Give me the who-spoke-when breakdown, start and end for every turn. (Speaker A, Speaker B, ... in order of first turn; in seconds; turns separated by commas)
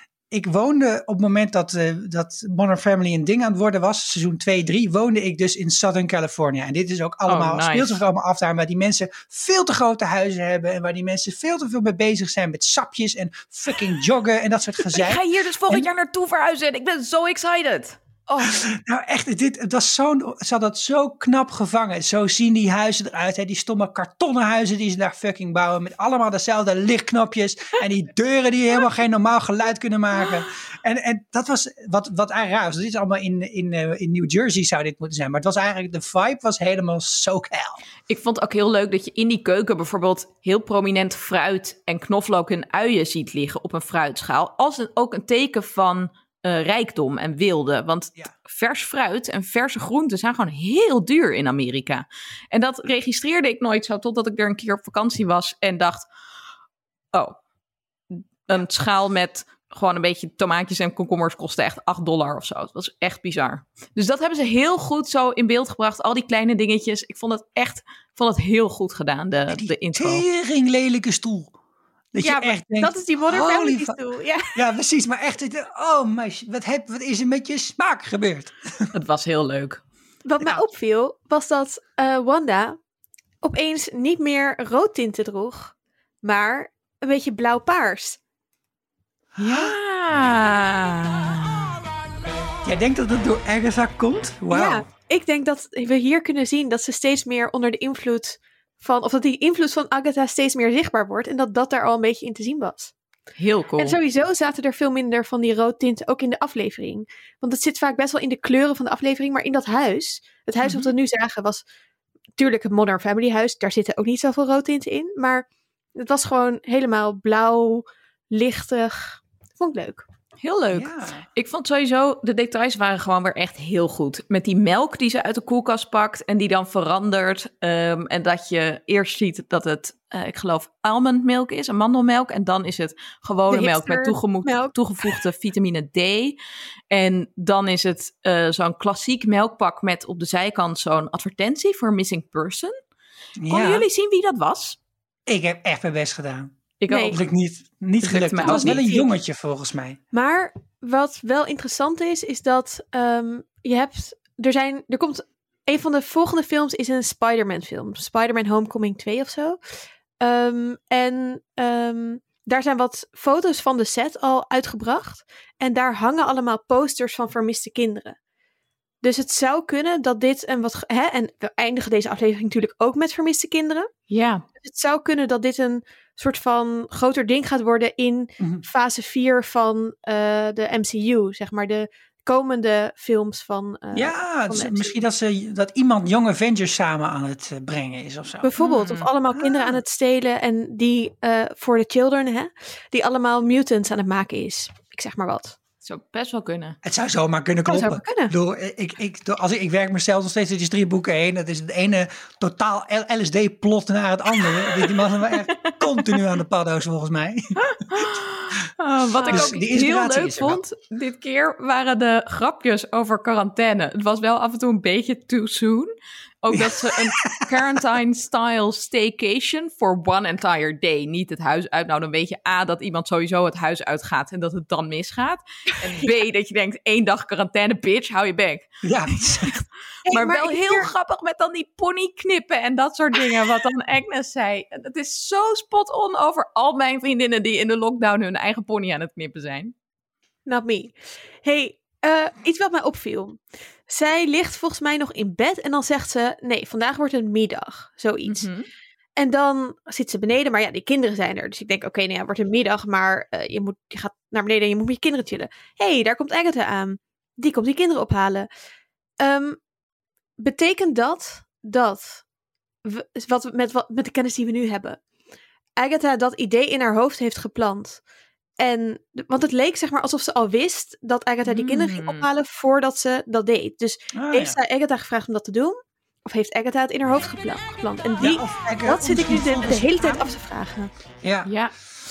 Speaker A: 0.3-15.9, Speaker B: 7.3-8.0, Speaker B: 14.9-18.0, Speaker C: 18.3-18.6, Speaker A: 18.4-37.8, Speaker B: 38.1-56.1, Speaker B: 57.1-57.4, Speaker B: 58.1-70.2, Speaker A: 69.5-71.6, Speaker A: 72.1-74.0, Speaker C: 72.2-74.6, Speaker A: 74.5-78.9, Speaker B: 78.9-79.8, Speaker C: 80.3-82.8, Speaker C: 83.4-88.2, Speaker A: 89.4-89.7, Speaker B: 89.4-91.8, Speaker A: 92.6-94.8, Speaker C: 94.5-102.9, Speaker B: 103.4-104.0, Speaker C: 103.8-111.6, Speaker B: 110.6-110.9, Speaker C: 112.4-120.0, Speaker B: 120.4-136.4, Speaker A: 120.7-121.3, Speaker C: 133.5-135.2, Speaker B: 136.9-142.8, Speaker A: 143.4-143.9, Speaker B: 143.5-144.8, Speaker A: 145.3-146.5, Speaker B: 146.8-147.2, Speaker C: 146.9-147.2, Speaker A: 147.1-150.0, Speaker B: 148.0-148.8, Speaker C: 148.4-149.1, Speaker C: 150.1-159.6, Speaker C: 160.2-168.2, Speaker C: 169.0-173.9, Speaker B: 174.1-174.4, Speaker C: 174.6-185.0, Speaker A: 183.9-188.5, Speaker C: 188.4-195.6, Speaker B: 188.6-189.1, Speaker A: 189.4-189.8, Speaker B: 195.8-196.8, Speaker A: 196.8-208.1, Speaker C: 197.7-198.3, Speaker B: 205.5-206.2, Speaker B: 207.6-215.9, Speaker C: 209.2-209.5, Speaker A: 209.3-210.6, Speaker B: 216.4-239.7, Speaker A: 216.5-217.4, Speaker A: 228.8-229.5, Speaker C: 230.1-230.9, Speaker C: 240.5-248.5, Speaker B: 248.3-248.7, Speaker C: 249.2-258.5, Speaker C: 259.2-259.6, Speaker C: 260.4-262.2, Speaker C: 262.9-265.0, Speaker C: 265.8-268.0, Speaker C: 268.6-280.9, Speaker B: 271.5-272.3, Speaker A: 274.1-274.6, Speaker A: 278.2-280.3, Speaker A: 281.2-281.5, Speaker B: 281.4-281.7